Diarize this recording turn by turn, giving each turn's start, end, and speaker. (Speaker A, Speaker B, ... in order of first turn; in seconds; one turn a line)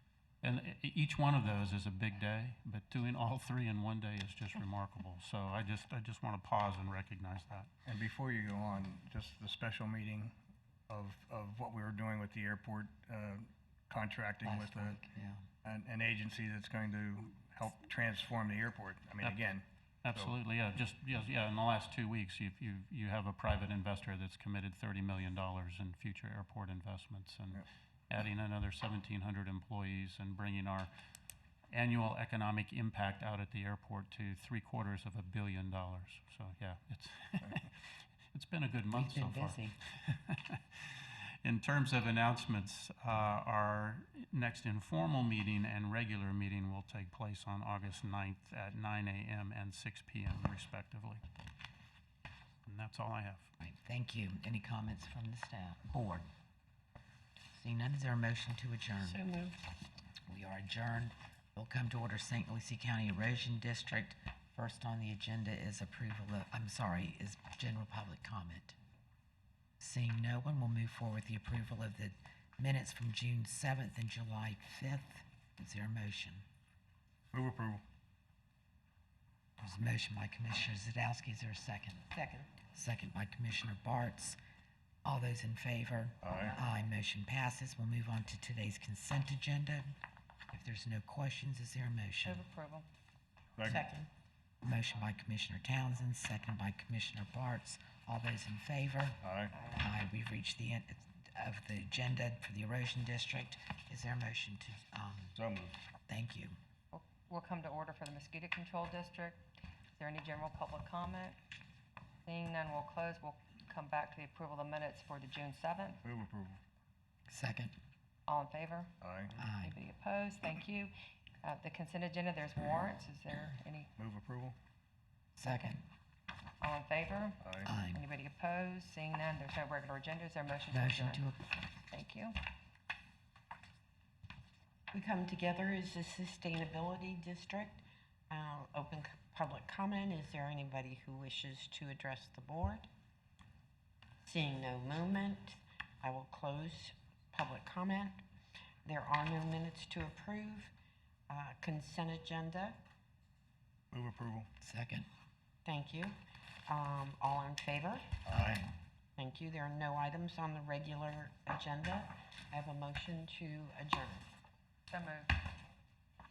Speaker A: 0.4-7.7
Speaker B: 7.8-10.3
Speaker B: 10.9-15.0
Speaker C: 14.4-15.4
Speaker B: 15.6-20.3
Speaker A: 20.0-30.9
Speaker A: 31.7-51.2
Speaker C: 38.9-39.8
Speaker A: 52.6-53.5
Speaker C: 53.6-56.3
Speaker C: 57.5-59.2
Speaker D: 59.0-59.6
Speaker C: 60.3-68.8
Speaker C: 69.8-76.4
Speaker B: 77.3-77.8
Speaker C: 79.6-82.1
Speaker D: 82.1-82.5
Speaker C: 82.7-84.4
Speaker C: 85.0-89.9
Speaker B: 86.2-86.5
Speaker C: 90.5-92.4
Speaker E: 92.2-92.9
Speaker D: 93.7-94.1
Speaker C: 94.6-105.4
Speaker B: 99.2-99.5
Speaker B: 105.3-105.8
Speaker C: 106.1-106.5
Speaker E: 106.9-109.4
Speaker E: 110.0-111.4
Speaker E: 112.2-116.0
Speaker B: 116.0-116.6
Speaker C: 117.3-117.7
Speaker E: 118.3-118.9
Speaker B: 119.0-119.4
Speaker C: 119.4-119.8
Speaker E: 119.6-123.9
Speaker B: 124.0-124.6
Speaker C: 125.4-125.8
Speaker E: 125.4-125.8
Speaker E: 126.6-131.2
Speaker B: 127.4-127.7
Speaker C: 127.6-128.0
Speaker C: 130.7-131.6
Speaker E: 131.9-132.4
Speaker D: 134.9-142.9
Speaker D: 144.2-148.2
Speaker D: 148.8-150.7
Speaker D: 151.3-152.8
Speaker B: 153.9-154.5
Speaker C: 154.6-155.1
Speaker D: 155.6-158.2
Speaker B: 158.2-158.6
Speaker C: 158.3-158.7
Speaker D: 159.2-164.2
Speaker E: 164.9-165.4